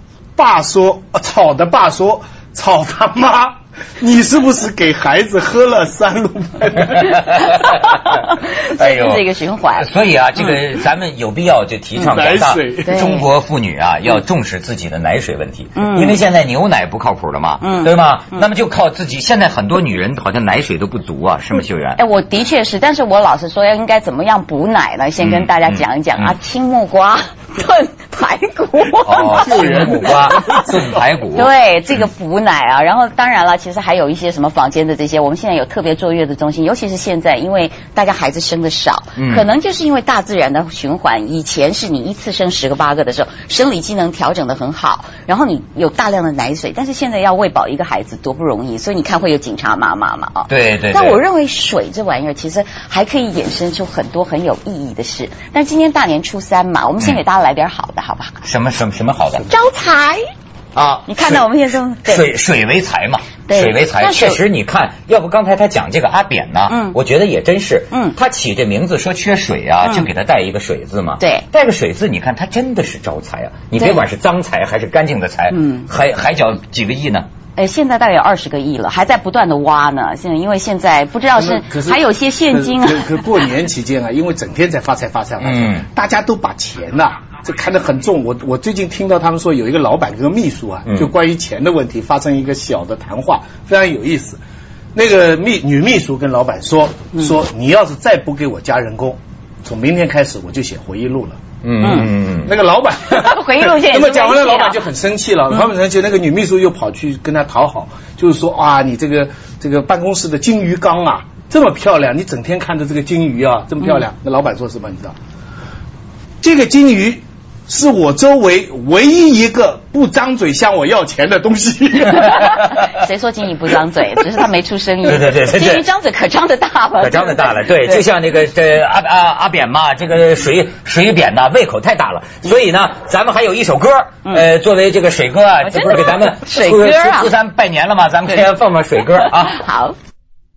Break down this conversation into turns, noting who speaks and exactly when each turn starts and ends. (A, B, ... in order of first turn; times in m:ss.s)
0:00.4-0:07.4 A
0:06.8-0:08.1 B
0:07.3-0:10.6 C
0:08.8-0:09.2 B
0:09.8-0:22.0 B
0:12.0-0:13.2 A
0:12.8-0:13.2 C
0:15.8-0:16.2 C
0:17.6-0:18.4 C
0:22.0-0:30.5 C
0:25.2-0:26.3 B
0:29.0-0:31.5 B
0:29.2-0:31.0 A
0:31.3-0:58.4 C
0:39.2-0:39.4 B
0:50.5-0:51.2 B
0:58.4-0:59.5 B
0:59.5-1:00.2 C
1:00.8-1:01.5 B
1:01.1-1:02.3 C
1:02.0-1:17.2 B
1:03.5-1:04.4 C
1:06.7-1:07.0 C
1:11.2-1:11.4 C
1:13.8-1:14.0 C
1:15.5-1:15.9 C
1:17.6-1:23.2 C
1:21.3-1:34.4 A
1:25.4-1:25.8 B
1:34.9-1:41.4 A
1:41.6-1:42.5 B
1:41.8-1:42.1 C
1:42.4-1:55.1 A
1:43.0-1:44.8 C
1:56.4-2:02.4 A
2:02.0-2:08.0 C
2:05.0-2:05.8 B
2:07.0-2:19.6 B
2:15.6-2:17.3 C
2:19.2-2:20.0 C